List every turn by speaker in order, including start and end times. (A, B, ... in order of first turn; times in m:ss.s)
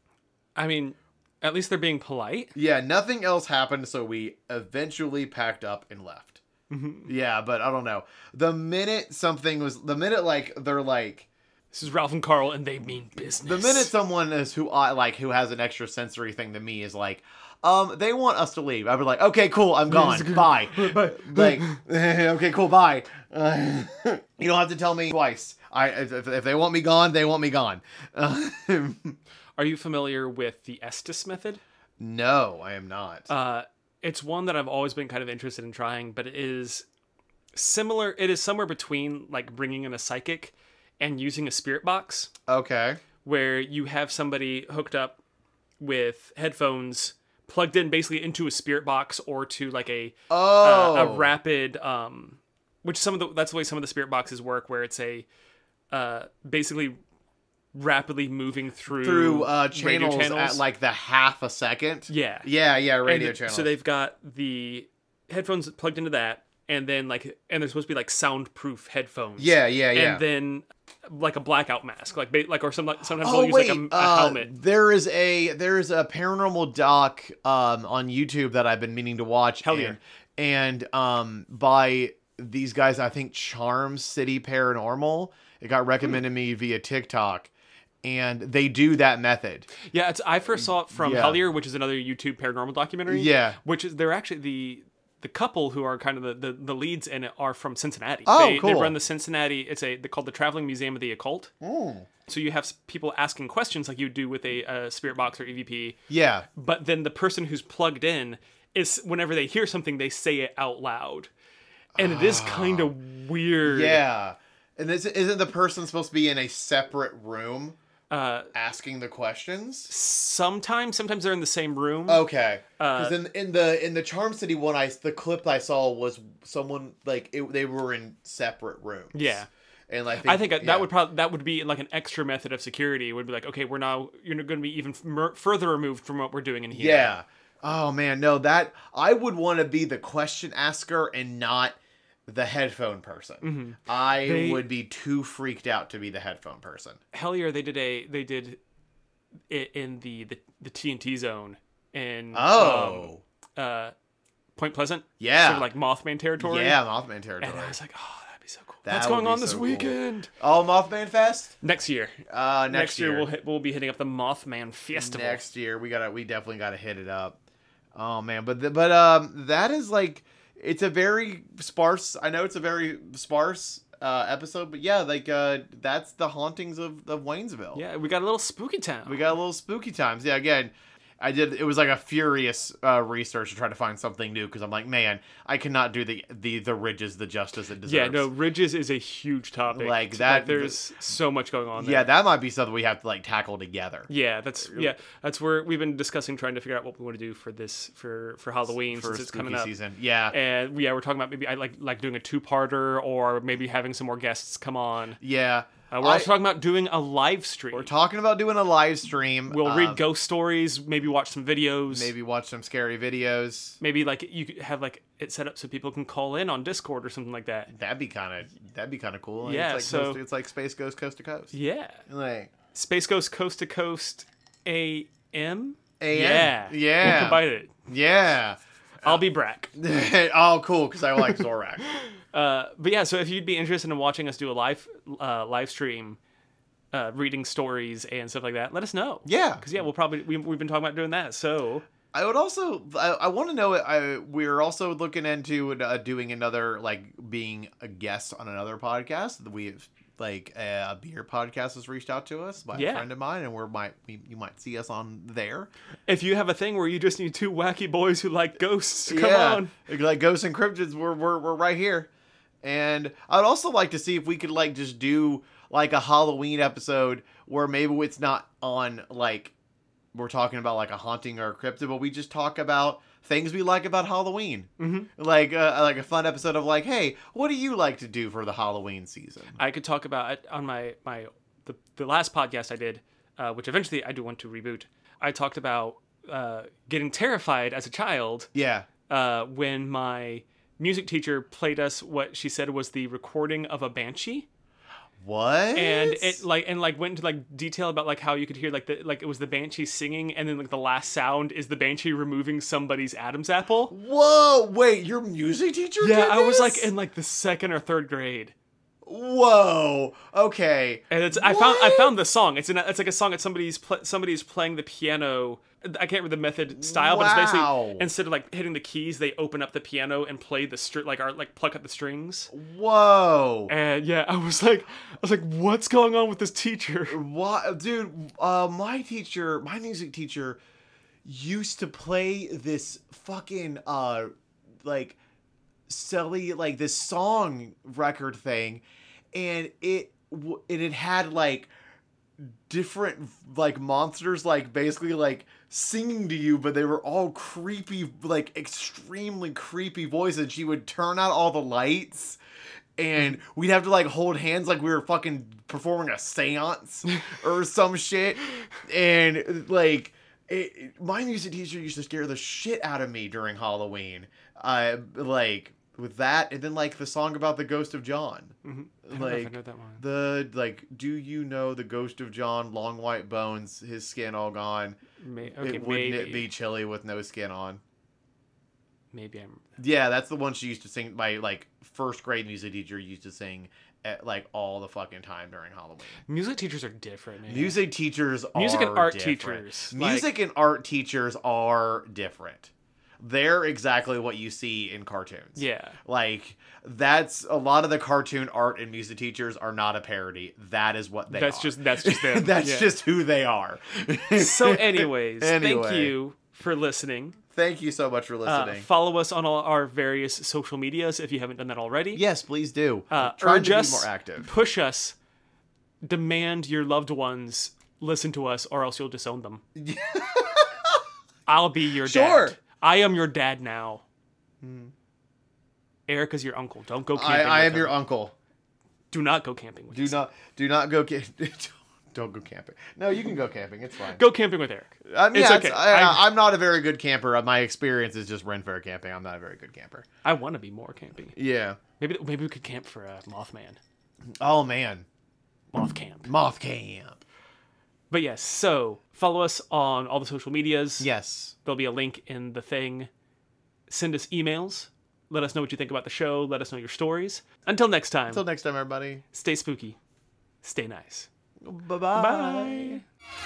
0:00.6-0:02.5 A
0:02.5-0:06.4 B
0:06.7-0:07.1 A
0:07.1-0:11.3 B
0:11.7-0:13.9 A
0:13.4-0:29.2 B
0:19.9-0:21.8 A
0:29.6-0:31.6 A
0:32.0-0:33.3 B
0:33.3-0:36.8 A
0:37.5-0:42.3 A
0:42.5-0:43.0 B
0:43.2-0:45.2 A
0:45.8-0:55.2 A
0:50.3-0:51.3 B
0:55.9-0:57.0 A
0:57.7-1:00.6 A
0:58.9-1:03.7 B
1:02.1-1:02.5 A
1:03.0-1:14.5 A
1:09.4-1:10.2 B
1:13.2-1:27.5 B
1:19.6-1:20.0 A
1:28.0-1:29.7 B
1:29.8-1:41.5 A
1:30.9-1:31.4 B
1:33.1-1:33.6 B
1:38.2-1:38.9 B
1:41.6-1:42.1 B
1:42.3-1:46.0 A
1:46.1-1:46.4 B
1:46.5-1:51.3 A
1:52.0-1:52.9 B
1:52.0-1:54.0 A
1:53.6-1:57.8 B
1:58.1-1:58.5 A
1:58.5-1:59.9 B
1:59.9-2:02.2 A
2:02.1-2:09.4 B
2:02.8-2:03.2 A
2:09.1-2:09.5 A
2:09.9-2:10.9 B
2:10.2-2:17.1 A
2:16.7-2:27.0 B
2:23.4-2:24.6 A
2:27.1-2:28.6 A
2:29.5-2:33.9 A
2:32.3-2:33.2 B
2:34.6-2:36.8 A
2:35.2-2:35.7 B
2:36.4-2:37.7 B
2:37.4-2:40.3 A
2:38.8-2:41.5 B
2:41.6-2:45.4 A
2:42.3-2:43.3 B
2:44.9-2:47.4 B
2:47.9-2:57.8 B
2:57.7-2:59.3 A
2:59.0-3:08.3 B
3:07.8-3:12.1 A
3:09.7-3:11.1 B
3:11.8-3:14.1 B
3:14.1-3:19.7 A
3:14.6-3:14.9 B
3:18.7-3:20.3 B
3:20.3-3:25.2 A
3:25.2-3:26.3 B
3:25.9-3:27.9 A
3:27.7-3:30.0 B
3:29.5-3:32.1 A
3:31.9-3:33.8 B
3:33.8-3:37.7 A
3:37.7-3:41.5 B
3:39.4-3:40.2 A
3:41.5-3:42.0 A
3:42.1-3:42.5 B
3:42.7-3:47.8 A
3:46.0-3:49.2 B
3:49.0-3:49.7 A
3:49.7-3:51.8 B
3:52.3-3:56.2 A
3:56.9-4:01.8 A
3:59.2-3:59.6 B
4:02.1-4:15.7 B
4:12.7-4:13.1 A
4:16.0-4:19.7 A
4:19.1-4:22.1 B
4:22.6-4:29.5 B
4:30.1-4:39.6 B
4:34.8-4:35.1 A
4:39.6-4:48.5 A
4:48.5-4:48.9 B
4:49.1-4:54.5 A
4:55.2-4:56.4 B
4:55.7-5:03.9 A
5:03.9-5:06.9 B
5:06.0-5:08.5 A
5:09.0-5:12.1 B
5:11.1-5:22.5 A
5:16.7-5:18.1 B
5:22.5-5:23.7 B
5:23.7-5:27.2 A
5:27.1-5:30.6 B
5:31.2-5:34.3 B
5:34.8-5:35.2 B
5:35.9-5:38.8 B
5:39.3-5:41.7 B
5:42.4-5:52.4 B
5:53.0-6:08.5 B
6:08.6-6:10.0 A
6:09.0-6:15.0 B
6:15.2-6:16.5 A
6:15.6-6:17.8 B
6:19.1-6:19.7 A
6:19.8-6:26.2 B
6:26.3-6:27.8 A
6:27.5-6:46.1 B
6:28.5-6:30.3 A
6:35.6-6:36.0 A
6:41.3-6:42.9 A
6:44.4-6:47.4 A
6:47.5-6:48.8 B
6:48.4-6:52.2 A
6:52.1-6:54.5 B
6:53.1-6:55.2 A
6:56.0-6:59.6 A
6:59.8-7:01.0 B
7:01.5-7:04.0 A
7:02.0-7:02.6 B
7:04.6-7:04.9 B
7:06.1-7:07.9 A
7:07.1-7:08.3 B
7:09.1-7:10.2 A
7:09.9-7:14.2 B
7:14.1-7:16.2 A
7:15.0-7:20.0 B
7:20.2-7:21.3 A
7:21.4-7:21.8 B
7:22.0-7:23.8 A
7:24.4-7:25.0 B
7:25.7-7:26.3 A
7:26.3-7:27.2 B
7:28.1-7:31.1 A
7:31.0-7:31.5 B
7:31.6-7:33.1 A
7:33.9-7:38.4 A
7:38.3-7:39.2 B
7:39.3-7:40.0 A
7:40.6-7:41.3 A
7:41.6-7:43.0 B
7:42.1-7:43.0 A